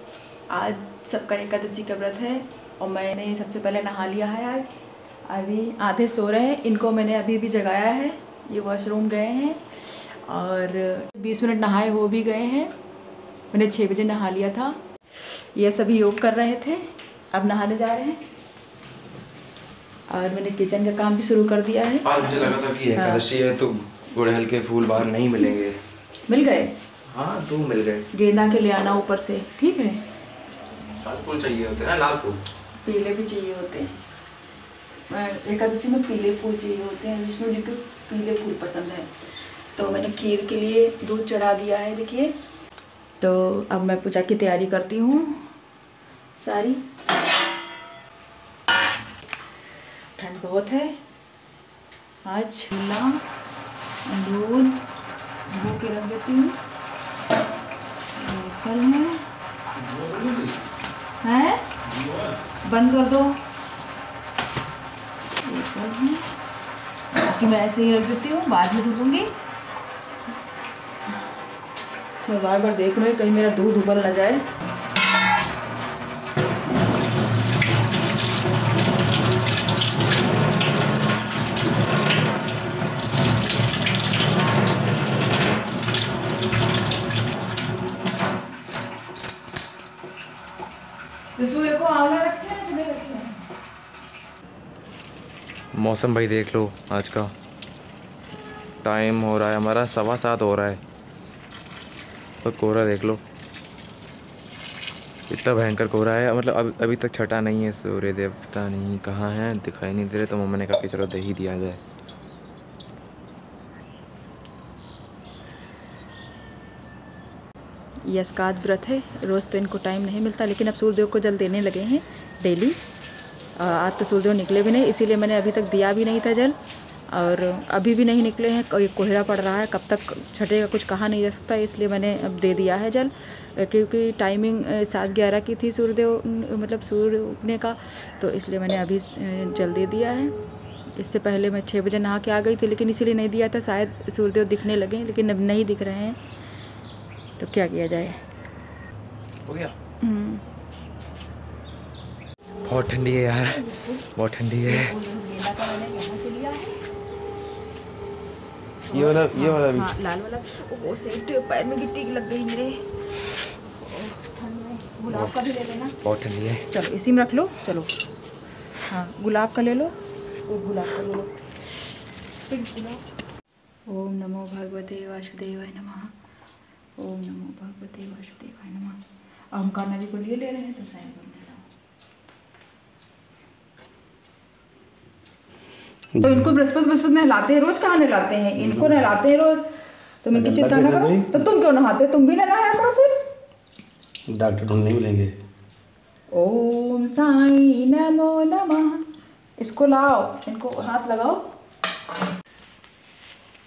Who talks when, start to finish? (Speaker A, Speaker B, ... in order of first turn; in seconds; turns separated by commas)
Speaker A: 0.5-4.7, Speaker A: 5.3-12.7, Speaker A: 13.5-14.8, Speaker A: 15.6-18.2, Speaker A: 20.1-23.2, Speaker B: 22.0-25.8, Speaker A: 26.3-26.7, Speaker B: 27.1-28.1, Speaker A: 28.1-30.0, Speaker B: 31.0-32.4, Speaker A: 32.8-34.0, Speaker A: 35.1-39.1, Speaker A: 39.8-42.4, Speaker A: 43.2-45.4, Speaker A: 46.4-46.9, Speaker A: 50.2-51.0, Speaker A: 52.2-53.2, Speaker A: 54.1-54.8, Speaker A: 55.5-56.5, Speaker A: 58.2-59.2, Speaker C: 59.8-60.6, Speaker A: 61.2-61.6, Speaker C: 61.8-62.4, Speaker A: 62.6-63.4, Speaker A: 65.4-66.3, Speaker A: 67.2-69.3, Speaker A: 72.2-74.5, Speaker A: 91.4-93.4, Speaker B: 95.8-97.3, Speaker B: 98.8-100.8, Speaker B: 102.4-103.2, Speaker B: 105.3-111.8, Speaker A: 118.1-122.8, Speaker A: 123.6-126.6, Speaker A: 127.1-140.3, Speaker A: 141.0-146.2, Speaker A: 147.4-148.2, Speaker B: 149.5-149.7, Speaker A: 150.0-150.4, Speaker B: 152.6-154.9, Speaker A: 154.6-156.8, Speaker B: 158.9-159.9, Speaker A: 158.9-162.8, Speaker A: 163.8-166.0, Speaker B: 166.0-166.7, Speaker A: 166.7-167.9, Speaker A: 168.9-169.9, Speaker A: 170.5-171.3, Speaker A: 172.5-173.0, Speaker A: 173.9-176.1, Speaker A: 177.0-181.7, Speaker C: 186.2-186.5, Speaker A: 186.2-189.7, Speaker C: 188.6-189.1, Speaker A: 190.2-193.2, Speaker C: 190.3-191.4, Speaker C: 194.3-195.3, Speaker A: 196.3-199.1, Speaker A: 199.6-201.4